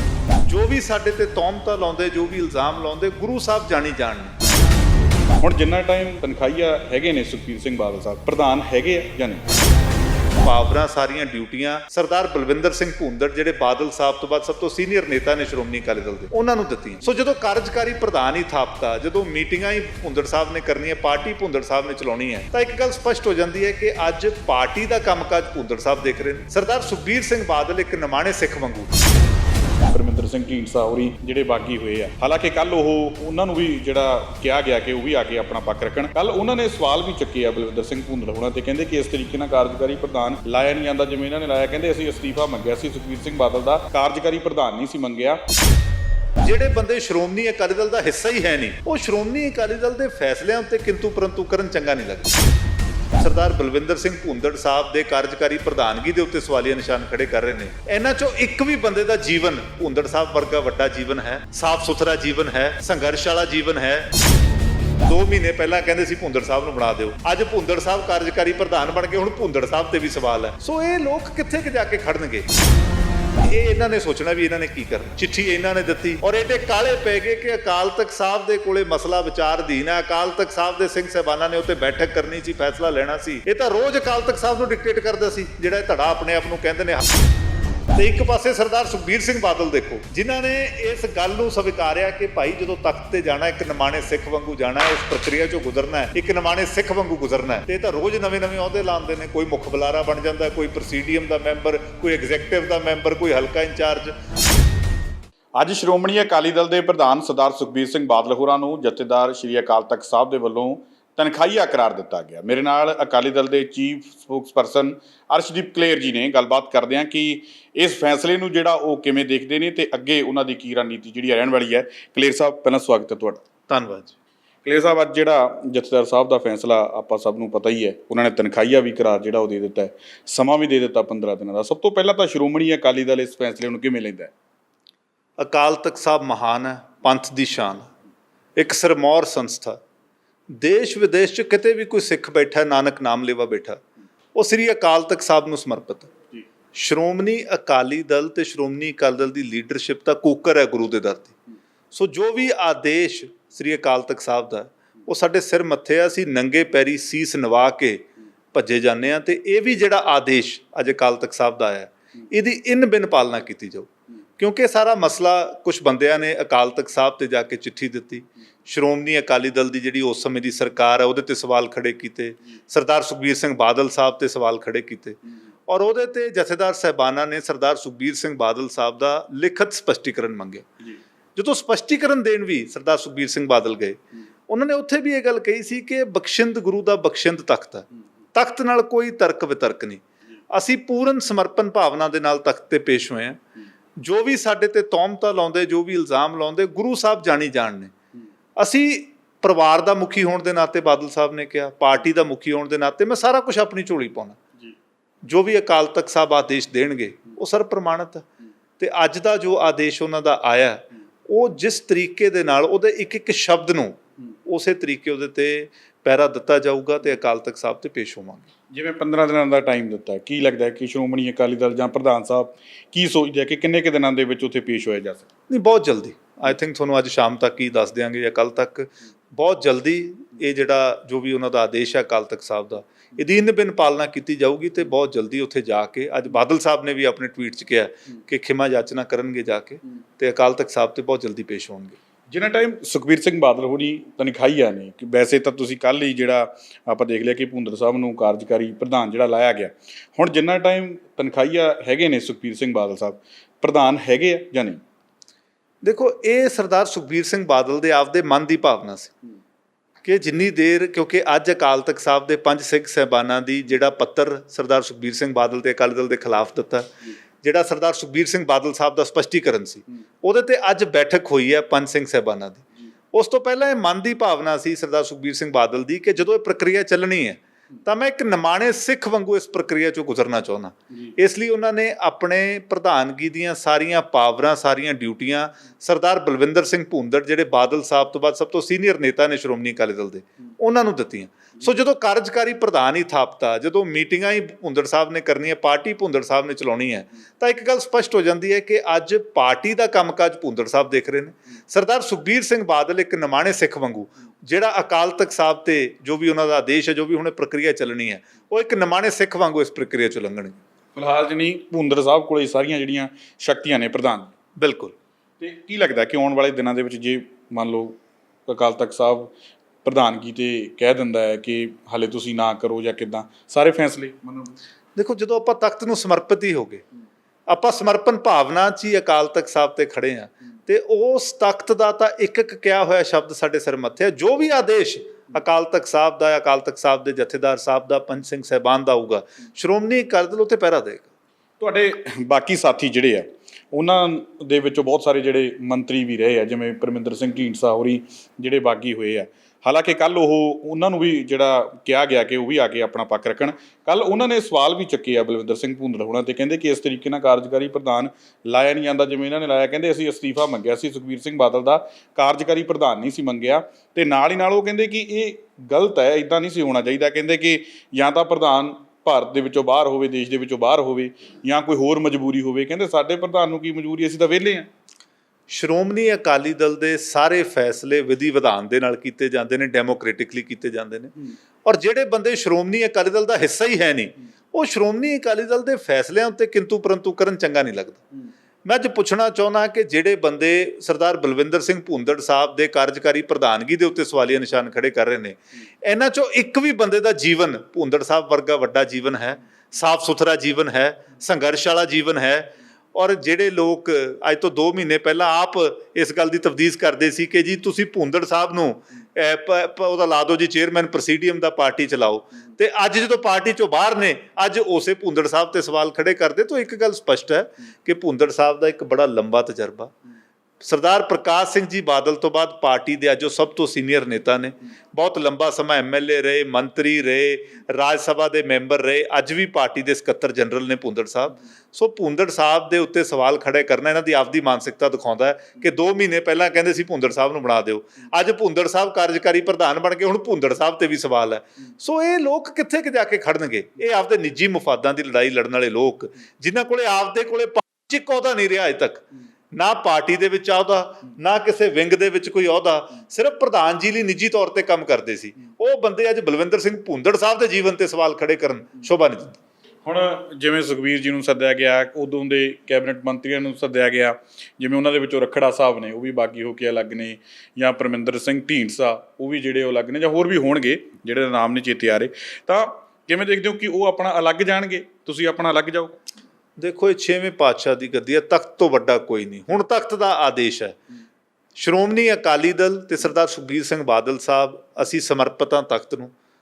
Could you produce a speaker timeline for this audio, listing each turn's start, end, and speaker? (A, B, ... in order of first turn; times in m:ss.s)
0:00.4-0:04.3 A
0:05.4-0:09.4 B
0:10.4-0:28.9 A
0:29.9-0:45.4 B
0:46.4-0:52.3 A
0:53.2-1:04.1 A
1:05.0-1:12.4 A
1:13.4-1:27.0 A
1:27.9-1:44.1 A
1:45.6-2:03.4 B
2:03.7-2:04.1 A
2:04.6-2:14.3 B
2:15.4-2:17.9 A
2:18.6-2:19.8 A
2:20.6-2:23.8 A
2:24.3-2:26.1 A
2:26.7-2:31.3 A
2:31.9-3:00.7 A
3:01.4-3:13.4 A
3:14.0-3:17.9 A
3:18.6-3:24.4 A
3:25.2-3:28.2 A
3:28.8-3:38.5 A
3:38.7-3:45.3 B
3:45.5-4:02.0 A
4:02.3-4:14.8 B
4:15.8-4:19.1 A
4:20.0-5:10.6 A
5:11.0-5:14.3 B
5:14.6-5:14.9 A
5:15.4-5:19.3 B
5:19.8-5:24.5 B
5:25.0-5:26.8 A
5:27.5-5:41.1 A
5:41.6-6:14.7 B
6:15.5-6:28.0 A
6:28.6-6:59.9 A
7:00.6-7:39.4 A
7:39.8-7:56.0 B
7:56.6-8:00.8 A
8:01.6-8:06.1 A